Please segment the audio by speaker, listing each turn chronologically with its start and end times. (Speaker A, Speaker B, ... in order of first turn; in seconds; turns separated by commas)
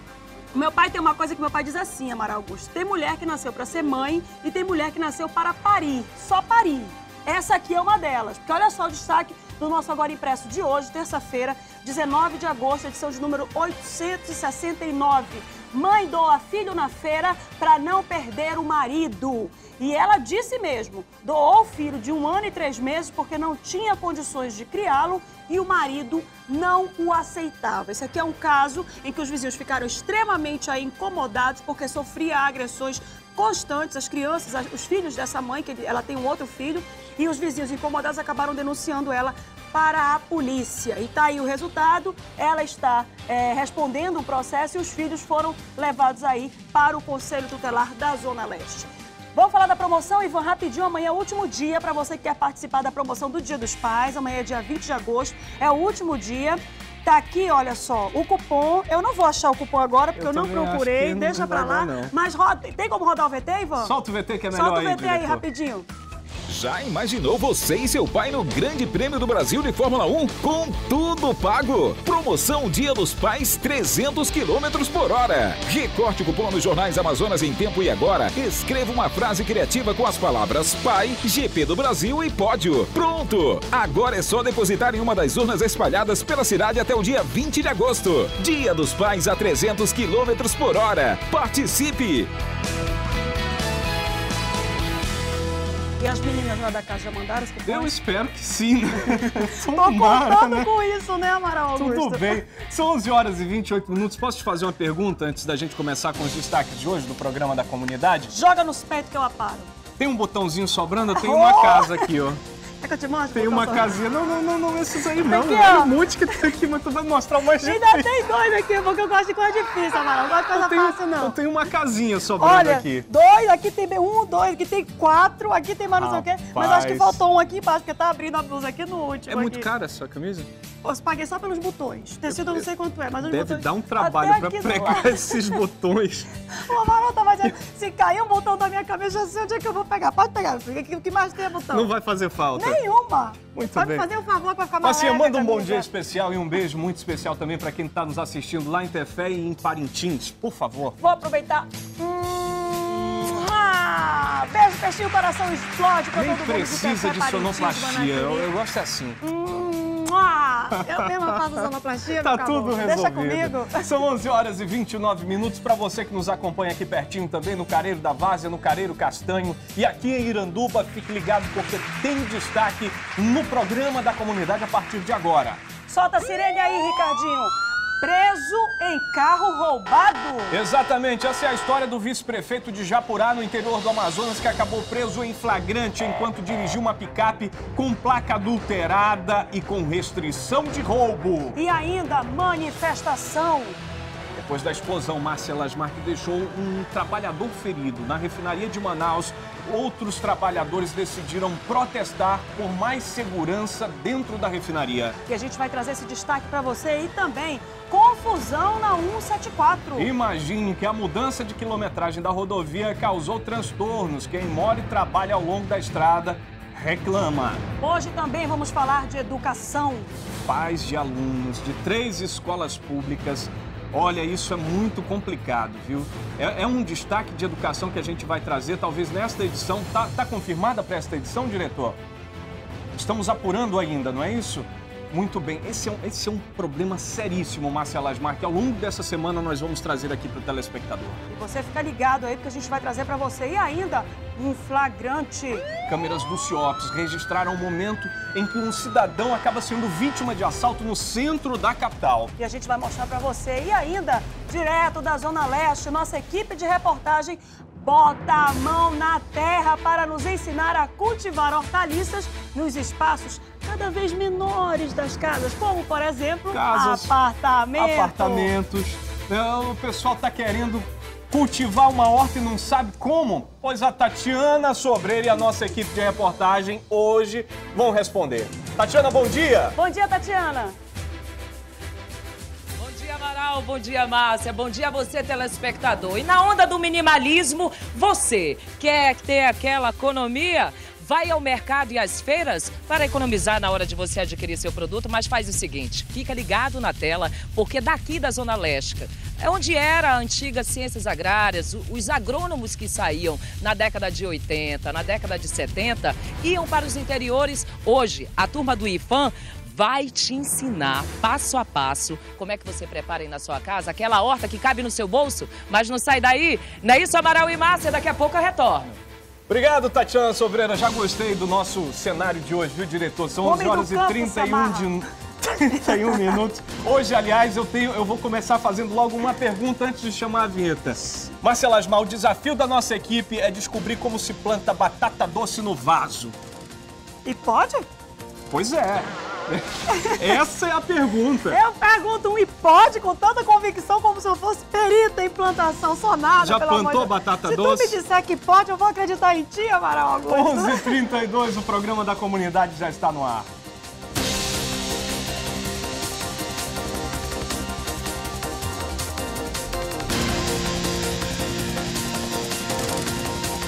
Speaker A: 0.5-63.9, Speaker B: 60.1-62.1, Speaker B: 63.8-65.4, Speaker A: 64.5-65.9, Speaker C: 66.5-92.3, Speaker A: 96.0-97.9, Speaker B: 97.7-100.7, Speaker A: 99.7-102.4, Speaker B: 101.8-108.3, Speaker A: 108.3-109.7, Speaker B: 110.0-112.4, Speaker A: 111.1-112.0, Speaker A: 112.8-114.0, Speaker B: 113.3-118.1, Speaker A: 115.2-115.9, Speaker A: 117.6-121.3, Speaker B: 120.5-123.1, Speaker A: 122.4-129.7, Speaker B: 126.0-127.2, Speaker B: 129.3-130.5, Speaker A: 130.8-135.6, Speaker B: 132.3-132.7, Speaker B: 133.2-136.3, Speaker A: 136.6-141.9, Speaker B: 141.7-142.8, Speaker A: 142.6-145.9, Speaker B: 143.5-144.1, Speaker B: 144.8-151.0, Speaker A: 151.0-158.5, Speaker B: 156.1-159.2, Speaker A: 159.2-163.8, Speaker B: 162.2-175.6, Speaker A: 175.9-180.6, Speaker B: 180.5-191.6, Speaker A: 191.6-193.8, Speaker B: 194.3-205.2, Speaker A: 205.3-210.1, Speaker B: 210.0-217.7, Speaker A: 217.8-220.1, Speaker B: 220.4-232.0, Speaker B: 233.0-241.2, Speaker A: 241.3-245.7, Speaker B: 245.9-252.3, Speaker A: 252.4-268.5, Speaker B: 266.5-267.1, Speaker B: 267.8-279.8, Speaker A: 279.8-280.8, Speaker D: 282.8-319.0, Speaker B: 319.5-336.4, Speaker A: 323.4-324.9, Speaker A: 337.2-337.8, Speaker B: 338.5-341.6, Speaker A: 339.9-340.3, Speaker A: 341.5-351.0, Speaker B: 346.4-348.0, Speaker B: 350.3-353.5